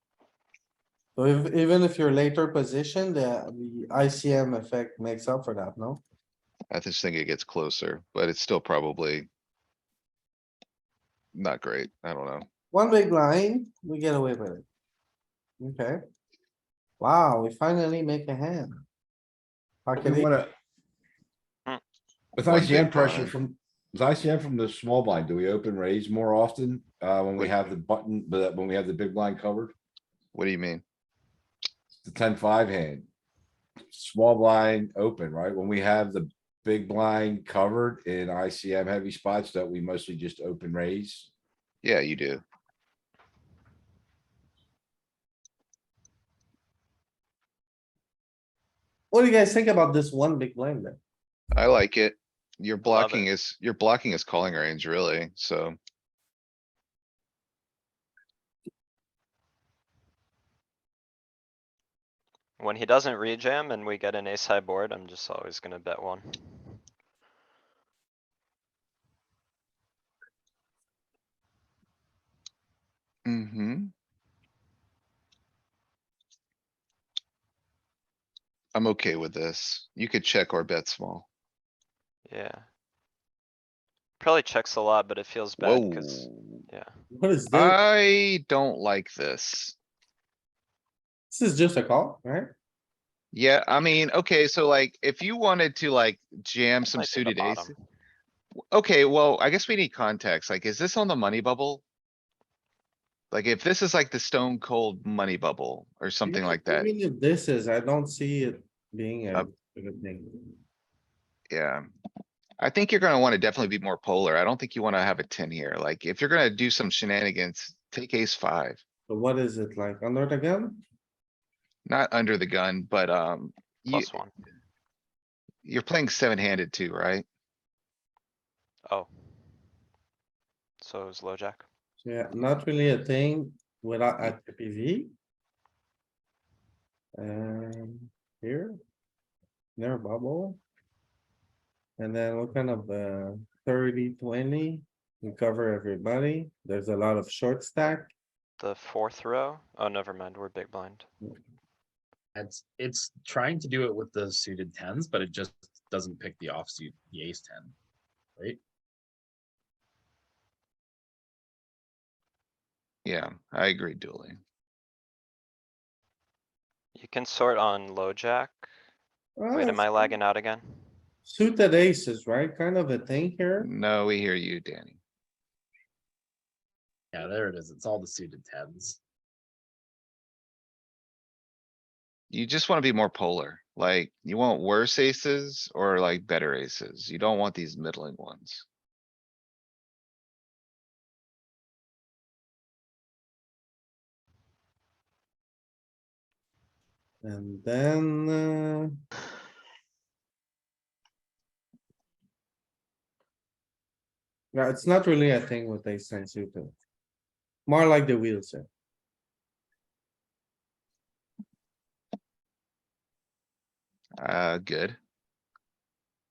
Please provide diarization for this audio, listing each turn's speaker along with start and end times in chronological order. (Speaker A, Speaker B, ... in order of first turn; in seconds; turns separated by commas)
Speaker A: 1.1-6.0, Speaker B: 6.7-9.3, Speaker B: 11.3-12.4, Speaker A: 12.7-14.6, Speaker A: 15.6-16.0, Speaker A: 17.0-18.8, Speaker A: 19.9-20.3, Speaker C: 20.0-20.5, Speaker C: 22.4-29.7, Speaker B: 22.4-23.4, Speaker B: 27.4-27.7, Speaker B: 30.3-30.8, Speaker C: 32.0-33.1, Speaker C: 33.9-41.3, Speaker B: 41.8-42.4, Speaker A: 49.1-51.0, Speaker B: 51.5-55.8, Speaker D: 52.8-53.3, Speaker D: 62.6-66.3, Speaker B: 73.2-73.9, Speaker B: 78.7-81.3, Speaker D: 82.2-82.7, Speaker D: 84.2-86.9, Speaker B: 85.6-86.6, Speaker A: 87.1-87.8, Speaker B: 87.5-89.8, Speaker A: 91.3-92.5, Speaker B: 93.3-97.7, Speaker D: 96.8-97.8, Speaker B: 98.7-101.8, Speaker B: 103.3-106.9, Speaker A: 106.2-110.5, Speaker B: 111.5-111.8, Speaker B: 112.6-118.8, Speaker A: 119.1-120.8, Speaker B: 121.8-124.1, Speaker D: 123.9-124.3, Speaker B: 125.6-127.2, Speaker D: 130.8-131.6, Speaker A: 132.0-135.1, Speaker A: 137.1-138.8, Speaker A: 139.8-140.6, Speaker A: 142.0-148.1, Speaker D: 148.6-151.1, Speaker E: 152.3-157.7, Speaker B: 163.0-164.4, Speaker D: 166.9-168.7, Speaker A: 169.4-170.2, Speaker D: 169.5-170.7, Speaker A: 171.2-173.7, Speaker B: 173.6-175.0, Speaker E: 177.1-179.0, Speaker B: 182.3-188.6, Speaker A: 197.2-198.9, Speaker A: 204.5-206.7, Speaker A: 207.7-208.7, Speaker B: 214.2-215.0